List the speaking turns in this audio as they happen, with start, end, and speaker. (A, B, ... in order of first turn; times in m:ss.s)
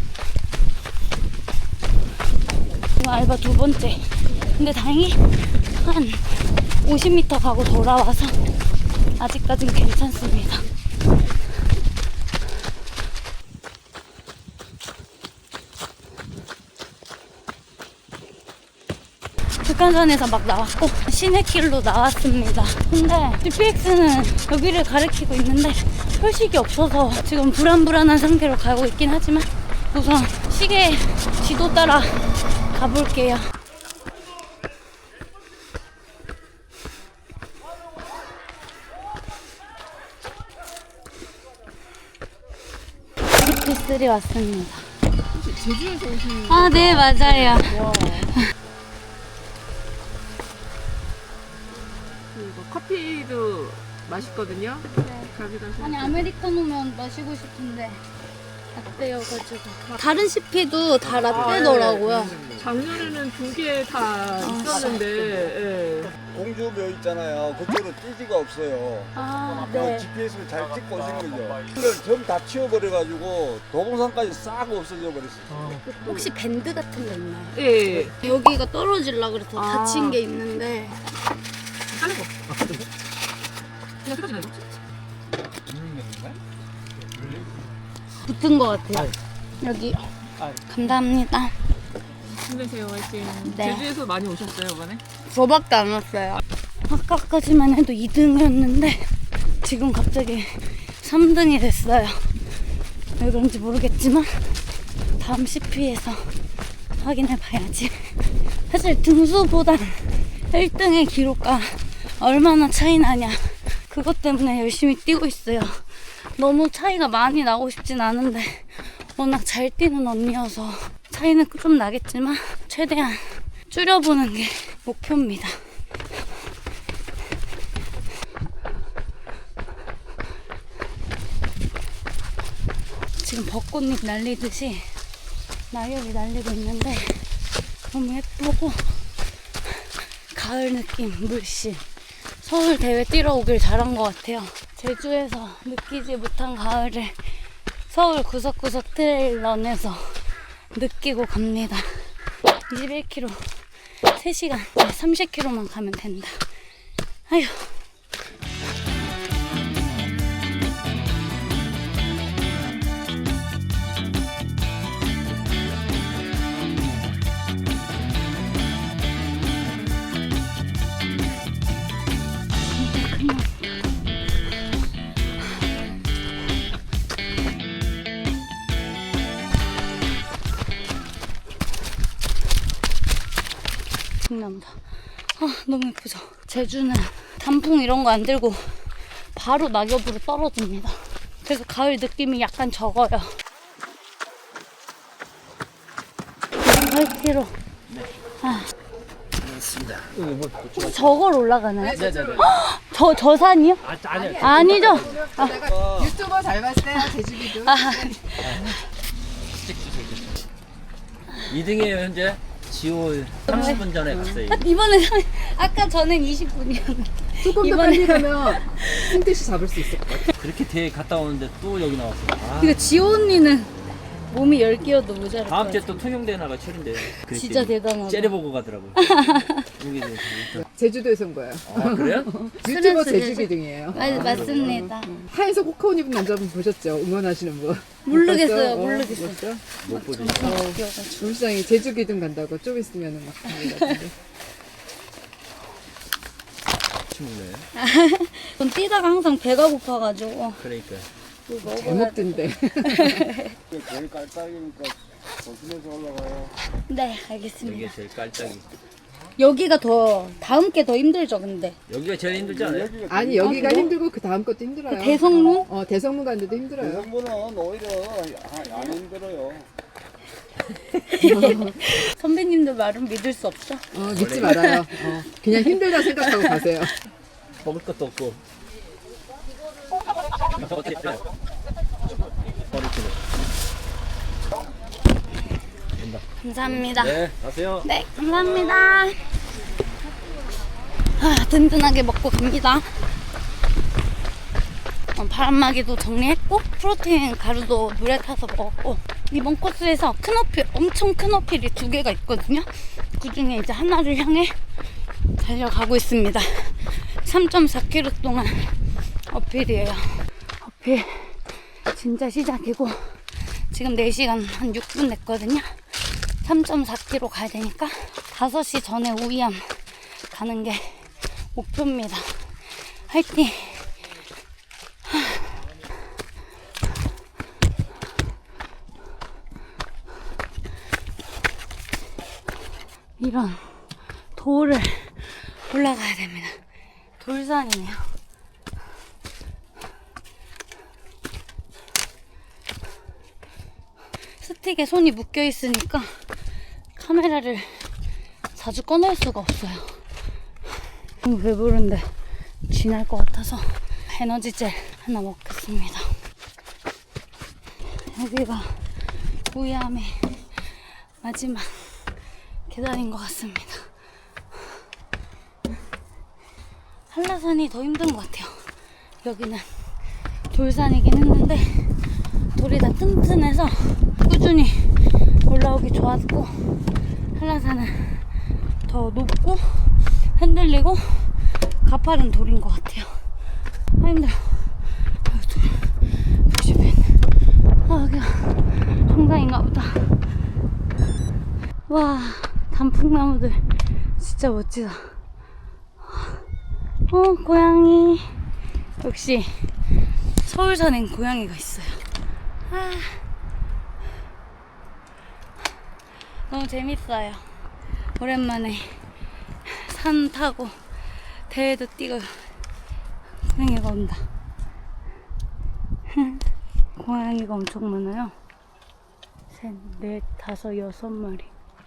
0:03.0-0:05.2 A
0:05.8-0:08.4 A
0:09.2-0:10.6 A
0:19.6-0:33.5 A
0:43.4-0:44.9 A
0:45.3-0:48.4 B
0:46.5-0:48.0 A
0:52.3-0:56.3 B
0:55.0-0:58.0 A
0:58.8-1:02.4 A
1:01.2-1:06.1 B
1:04.4-1:05.0 A
1:06.3-1:15.8 C
1:09.2-1:10.1 A
1:15.5-1:16.3 B
1:15.9-1:21.0 A
1:17.6-1:18.2 B
1:19.6-1:20.2 B
1:21.9-1:22.8 B
1:24.0-1:24.8 B
1:25.7-1:26.4 D
1:27.2-1:27.5 D
1:28.2-1:30.0 A
1:30.7-1:31.5 A
1:32.3-1:35.0 B
1:33.4-1:33.9 A
1:35.3-1:39.1 A
1:39.6-1:42.3 A
1:43.2-1:44.6 A
1:45.2-1:46.3 A
1:47.0-1:48.2 A
1:48.7-1:55.8 A
1:56.4-2:05.6 A
2:13.2-2:14.9 A
2:15.7-2:17.3 A
2:17.9-2:18.8 A
2:20.3-2:21.8 A
2:22.4-2:27.2 A
2:27.9-2:30.2 A
2:30.7-2:32.1 A
2:32.7-2:33.4 A
2:34.1-2:36.4 A
2:37.3-2:37.8 A
2:52.7-2:53.7 A
3:04.2-3:04.8 A
3:05.4-3:13.3 A
3:16.6-3:17.6 A
3:18.4-3:18.7 A
3:19.4-3:21.2 D
3:20.7-3:23.8 A
3:21.8-3:22.5 E
3:21.9-3:22.5 D
3:23.8-3:25.2 D
3:24.1-3:28.1 E
3:24.4-3:25.6 A
3:25.4-3:26.2 C
3:27.0-3:28.8 A
3:28.4-3:28.8 D
3:29.5-3:30.4 D
3:31.5-3:34.7 D
3:33.5-3:38.8 A
3:37.4-3:40.2 E
3:40.1-3:42.8 D
3:42.6-3:43.7 A
3:44.3-3:46.0 A
3:45.5-3:50.7 D
3:47.3-3:48.4 A
3:49.0-3:49.6 A
3:50.7-3:59.6 E
3:51.7-3:52.4 D
3:52.6-3:55.1 A
3:54.0-3:54.8 D
3:58.1-4:01.3 A
3:59.8-4:00.7 D
4:00.4-4:04.1 E
4:07.1-4:07.7 D
4:07.8-4:10.6 A
4:10.6-4:11.1 D
4:11.5-4:13.6 A
4:11.6-4:13.3 E
4:13.7-4:16.5 C
4:16.9-4:18.0 A
4:17.6-4:18.7 D
4:19.4-4:21.8 A
4:21.9-4:22.9 D
4:22.3-4:24.0 C
4:23.1-4:27.1 E
4:23.4-4:23.9 A
4:24.9-4:25.7 A
4:26.8-4:29.7 C
4:31.0-4:33.9 A
4:31.2-4:31.7 E
4:33.9-4:36.9 E
4:34.1-4:34.7 D
4:34.5-4:34.8 A
4:35.6-4:36.6 A
4:37.6-4:38.4 D
4:40.6-4:41.2 D
4:42.7-4:43.2 D
4:46.0-4:47.9 D
4:46.4-4:47.2 A
4:47.8-4:49.2 A
4:51.2-4:52.9 A
4:55.2-5:04.6 A
5:05.4-5:08.8 A
5:09.3-5:15.8 A
5:16.3-5:22.5 A
5:23.1-5:23.9 A
5:25.1-5:25.6 A
5:33.2-5:36.6 A
5:37.2-5:38.1 A
5:44.4-5:46.1 A
5:47.0-5:47.9 A
5:48.6-5:50.0 A
5:51.2-5:52.1 A
5:52.7-5:56.1 A
5:57.9-5:58.8 A
5:59.5-6:00.6 A
6:01.2-6:02.0 A
6:02.7-6:03.8 A
6:07.1-6:08.6 A
6:09.2-6:09.6 A
6:10.5-6:12.0 A
6:12.5-6:14.9 A
6:15.5-6:16.5 A
6:17.4-6:18.3 A
6:18.9-6:23.2 A
6:24.0-6:27.2 A
6:27.9-6:30.2 A
6:31.9-6:33.6 A
6:34.2-6:35.2 A
6:36.1-6:36.4 A
6:37.1-6:38.3 A
6:39.0-6:39.7 A
6:40.4-6:42.0 A
6:42.7-6:43.2 A
6:46.5-6:47.4 A
6:48.2-6:48.9 A
6:49.7-6:50.8 A
6:51.5-6:52.5 A
6:53.4-6:54.3 A
6:56.1-6:56.4 A
6:57.0-6:58.3 A
6:59.5-7:01.5 A